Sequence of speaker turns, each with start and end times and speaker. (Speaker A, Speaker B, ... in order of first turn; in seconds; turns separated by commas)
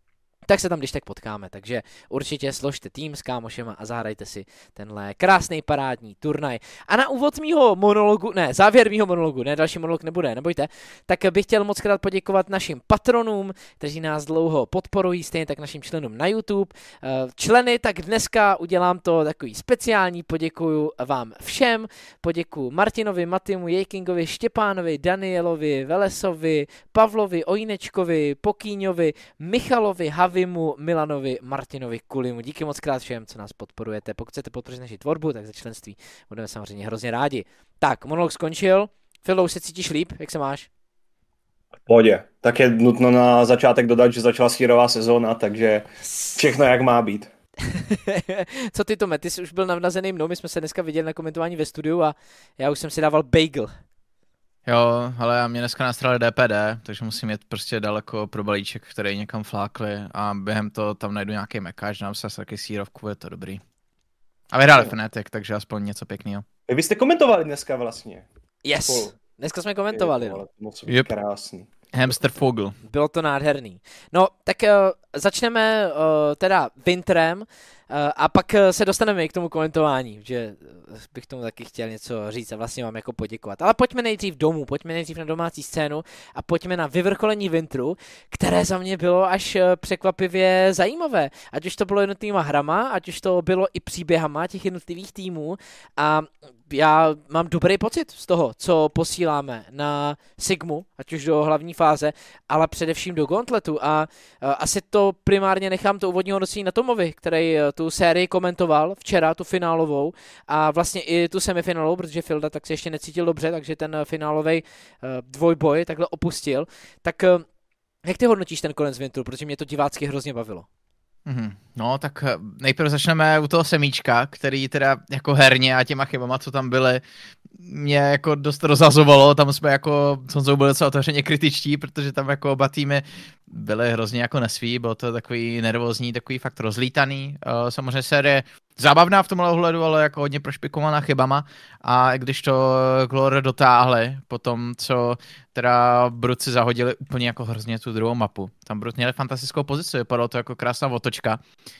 Speaker A: 0.5-40.7, Speaker B: 41.9-47.3, Speaker A: 47.7-53.7, Speaker C: 54.6-63.6, Speaker C: 64.5-66.5, Speaker B: 66.7-68.2, Speaker A: 68.6-70.4, Speaker B: 68.8-69.2, Speaker B: 69.9-71.7, Speaker C: 71.9-72.8, Speaker A: 72.8-117.5, Speaker A: 118.0-120.7, Speaker C: 121.2-151.4